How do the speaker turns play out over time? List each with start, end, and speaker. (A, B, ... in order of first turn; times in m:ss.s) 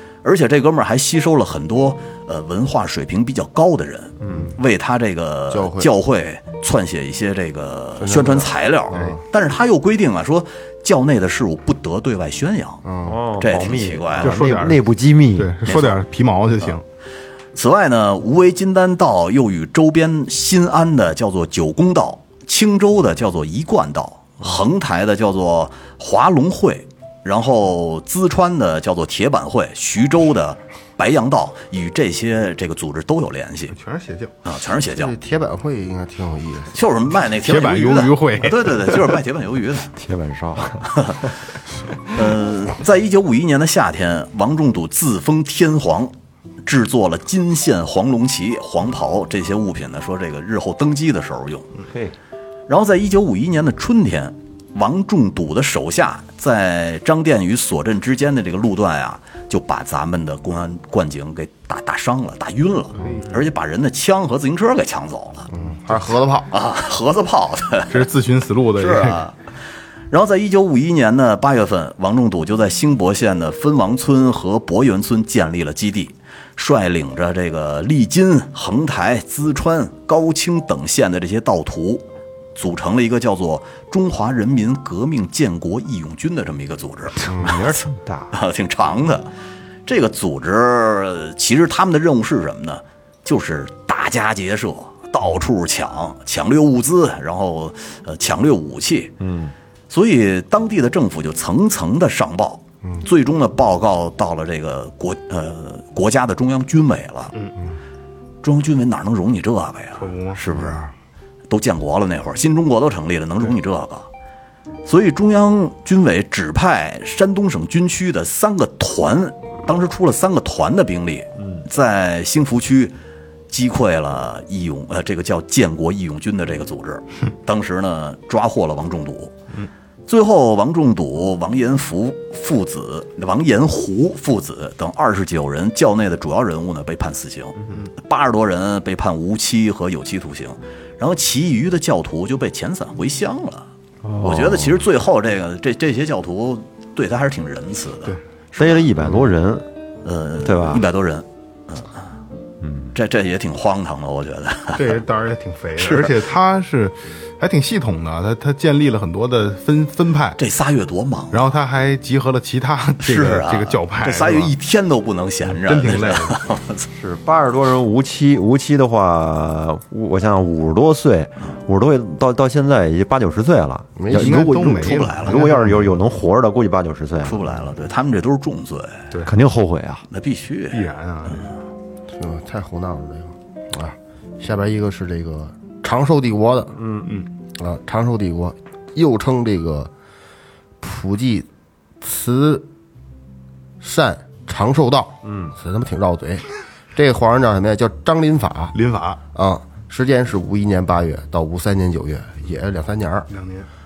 0:00.2-0:12.8 A
0:04.2-0:04.5 B
0:05.5-0:05.9 C
0:08.0-0:09.2 C
0:12.8-0:13.2 C
0:13.0-0:15.5 B
0:13.4-0:14.4 A
0:14.2-0:16.8 D
0:15.7-0:16.0 A
0:17.5-0:33.8 A
0:33.7-0:34.4 D
0:34.4-0:35.1 A
0:34.9-0:36.8 C
0:36.7-0:39.9 A
0:37.4-0:39.2 D
0:40.0-0:41.0 B
0:40.8-0:41.2 A
0:42.0-0:46.1 A
0:46.6-0:51.7 A
0:52.7-1:05.5 A
1:05.5-1:06.5 C
1:06.5-1:08.1 A
1:07.9-1:09.3 D
1:08.8-1:09.4 A
1:10.1-1:27.7 A
1:27.3-1:28.4 B
1:28.3-1:29.3 A
1:29.8-1:39.1 A
1:39.2-1:39.5 B
1:39.9-1:47.3 A
1:48.4-1:50.9 A
1:50.0-1:50.8 D
1:51.5-1:54.1 A
1:54.8-2:03.0 A
2:03.5-2:09.4 A
2:10.1-2:23.7 A
2:24.0-2:24.8 B
2:24.2-2:28.9 A
2:28.6-2:29.7 B
2:30.0-2:32.0 A
2:30.4-2:30.8 B
2:32.6-2:32.9 B
2:32.9-2:35.0 A
2:34.8-2:40.4 D
2:35.8-2:36.2 A
2:40.4-2:41.5 A
2:41.3-2:44.5 D
2:43.0-2:46.9 A
2:45.4-2:46.4 D
2:46.9-2:57.4 B
2:54.0-2:54.4 C
2:54.1-2:56.0 D
2:54.8-2:55.4 A
2:57.2-2:59.1 A
2:59.2-3:00.0 B
3:00.1-3:01.4 A
3:00.7-3:01.5 D
3:02.1-3:06.8 C
3:06.8-3:07.1 B
3:07.6-3:09.9 C
3:10.8-3:11.5 C
3:12.0-3:12.7 C
3:13.8-3:18.8 C
3:15.2-3:15.5 B
3:18.7-3:19.2 D
3:19.4-3:23.3 C
3:23.3-3:23.7 D